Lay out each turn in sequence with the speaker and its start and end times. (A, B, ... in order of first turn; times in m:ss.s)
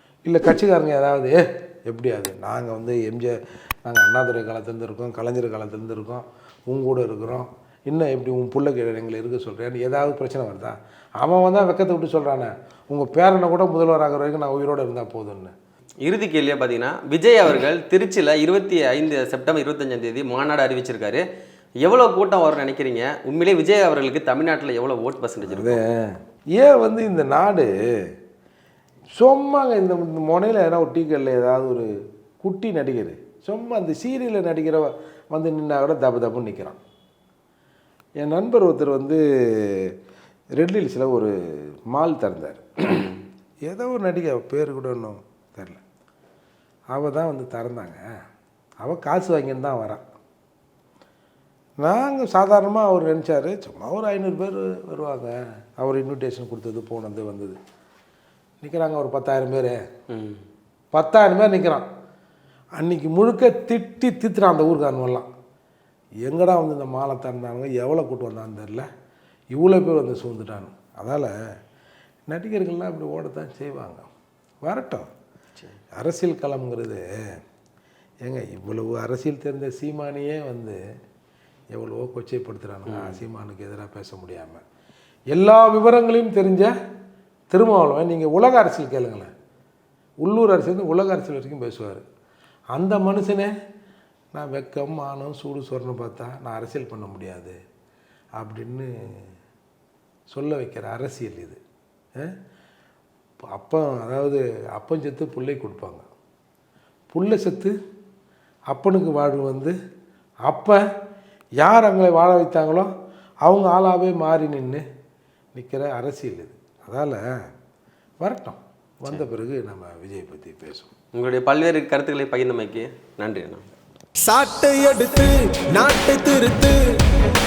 0:00.3-0:15.5 A
0:16.0-0:21.2 B
0:21.8-0:25.8 B
0:25.4-0:27.7 A
0:29.2-0:31.9 A
0:32.4-0:36.8 A
0:38.2-0:39.9 A
0:40.6-0:41.3 A
0:41.9-0:43.1 A
0:42.9-0:43.2 B
0:43.6-0:45.8 A
0:46.9-0:48.0 A
0:48.8-0:50.0 A
0:51.8-0:57.6 A
0:58.6-0:59.8 A
1:00.1-1:00.4 B
1:00.9-1:01.9 A
1:02.8-1:05.3 A
1:06.2-1:08.9 A
1:09.5-1:11.3 A
1:12.3-1:14.0 A
1:14.6-1:15.1 A
1:15.9-1:17.0 A
1:18.2-1:20.8 A
1:21.7-1:24.6 A
1:22.9-1:23.2 B
1:25.3-1:26.7 A
1:27.5-1:29.3 A
1:30.2-1:32.0 A
1:32.7-1:33.5 A
1:34.3-1:37.6 A
1:38.4-1:38.9 A
1:40.3-1:41.6 A
1:43.5-1:46.0 A
1:47.1-1:47.7 A
1:48.7-1:49.7 A
1:50.5-1:50.8 A
1:51.6-1:52.9 A
1:53.4-1:54.8 A
1:55.5-1:57.2 A
1:58.2-2:00.9 A
2:01.1-2:03.6 B
2:04.2-2:06.8 C